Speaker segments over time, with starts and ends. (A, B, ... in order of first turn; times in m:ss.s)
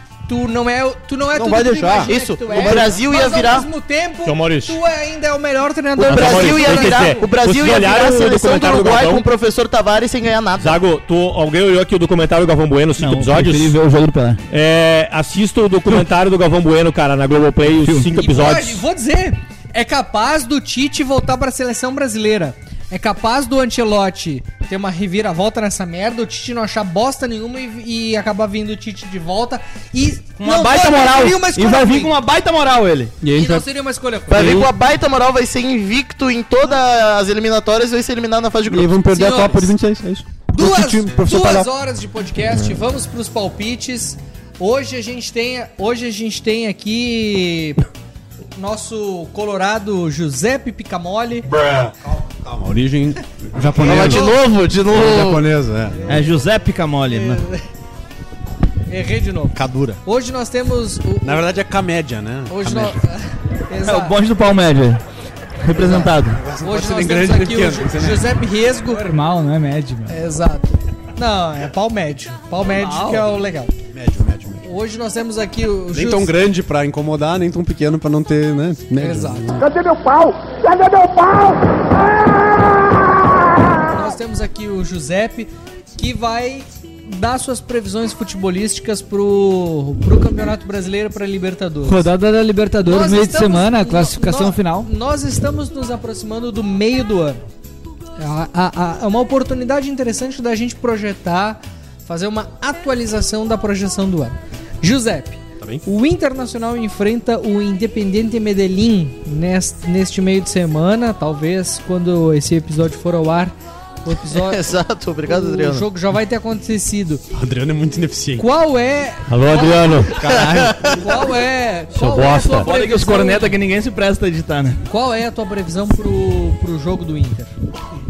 0:00.3-0:07.3 A
0:01.4-0:02.8 B
0:02.1-0:03.7 C
0:04.2-0:04.8 D
0:06.0-0:10.8 C
0:06.1-0:09.2 D
0:10.6-0:13.8 D
0:13.0-0:14.4 E
0:14.5-0:18.8 D
0:17.7-0:18.1 E
0:18.2-0:32.2 A
0:30.4-0:33.2 E
0:33.2-0:33.7 B
0:33.3-0:34.6 A
0:34.3-0:39.0 C
0:38.7-0:41.7 B
0:39.1-0:39.7 A
0:40.5-0:47.8 A
0:48.6-0:51.5 A
0:51.6-0:56.1 B
0:53.8-0:55.4 C
0:53.8-0:54.4 A
0:56.1-0:57.4 E
0:56.1-0:56.4 A
0:57.1-0:57.6 A
0:58.9-1:01.5 A
0:59.6-1:00.0 B
1:01.2-1:03.0 B
1:02.5-1:04.2 A
1:03.8-1:05.0 E
1:05.6-1:06.4 E
1:05.8-1:06.1 A
1:05.8-1:08.3 B
1:06.6-1:09.2 A
1:08.9-1:10.2 F
1:10.1-1:13.7 A
1:12.8-1:13.3 F
1:13.9-1:14.6 B
1:14.6-1:16.3 A
1:15.9-1:19.7 B
1:19.0-1:19.7 A
1:19.6-1:21.6 G
1:23.8-1:32.1 A
1:31.8-1:34.9 F
1:32.8-1:37.4 A
1:38.2-1:54.6 A
1:54.3-1:55.9 C
1:55.3-1:57.2 A
1:57.3-1:58.5 B
1:58.4-2:00.3 A
1:59.3-2:00.2 D
2:00.1-2:01.2 B
2:00.3-2:01.0 C
2:00.8-2:03.6 A
2:01.9-2:02.7 D
2:02.5-2:04.8 E
2:04.9-2:07.5 A